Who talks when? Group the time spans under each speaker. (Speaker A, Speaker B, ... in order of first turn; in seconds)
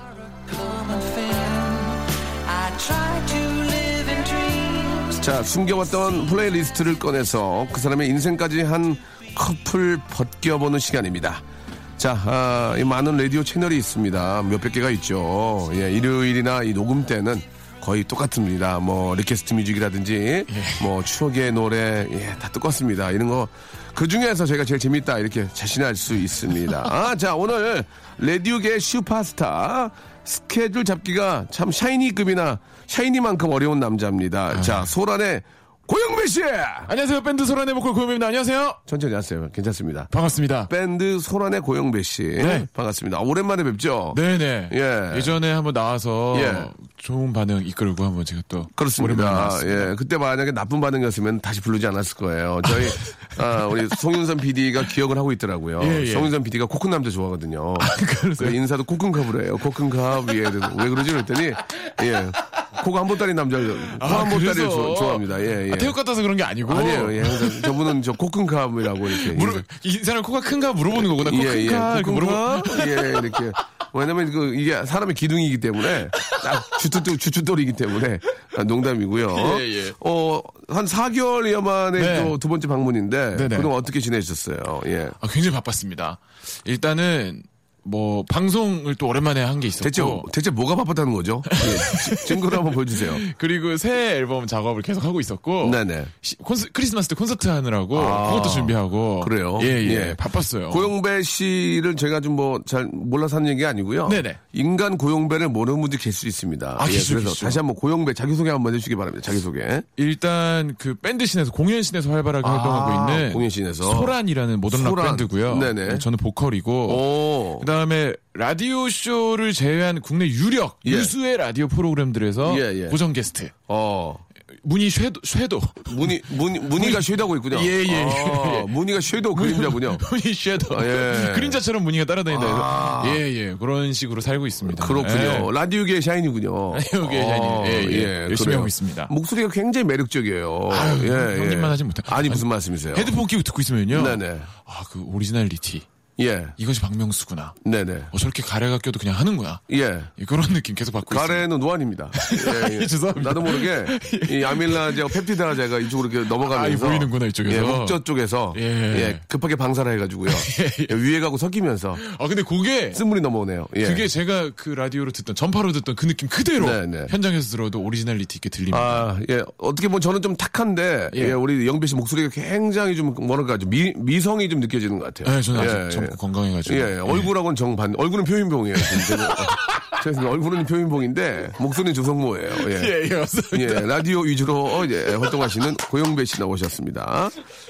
Speaker A: 0.2-5.2
Speaker B: 5.2-11.4, 12.0-36.9, 38.9-40.1, 40.7-44.2, 44.7-45.4, 46.3-46.7, 48.7-66.0, 66.7-69.7, 70.9-85.2, 89.8-93.2, 95.6-96.1, 97.9-109.8, 112.4-114.2, 114.7-116.1, 116.9-117.7, 120.8-121.1, 122.4-123.0, 123.7-124.2, 125.9-130.1, 130.6-131.6, 132.3-133.2, 134.7-143.1, 143.9-144.5, 146.2-146.6, 147.6-148.1, 149.7-150.1, 151.1-162.0, 162.9-164.1, 166.6-167.1, 168.7-182.9, 183.5-187.3
Speaker C: 20.5-20.9, 34.5-34.9, 36.9-38.8, 40.1-40.7, 42.4-42.7, 44.1-49.9, 52.7-53.9, 55.8-56.3, 57.8-58.6, 63.9-67.8, 69.1-73.4, 76.2-76.8, 79.3-80.0, 82.0-82.4, 83.3-83.7, 85.2-90.3, 91.5-100.9, 104.1-104.4, 106.8-107.6, 110.0-123.5, 124.6-126.2, 126.7-128.7, 129.3-135.5, 136.7-139.1, 140.7-145.9, 146.6-147.6, 148.1-149.6, 150.2-151.5, 152.2-155.3, 156.4-158.0, 158.5-159.2, 160.3-160.9, 162.0-163.0, 163.8-169.1, 171.1-171.4, 175.2-177.3, 178.8-180.0, 182.5-184.0, 185.0-185.4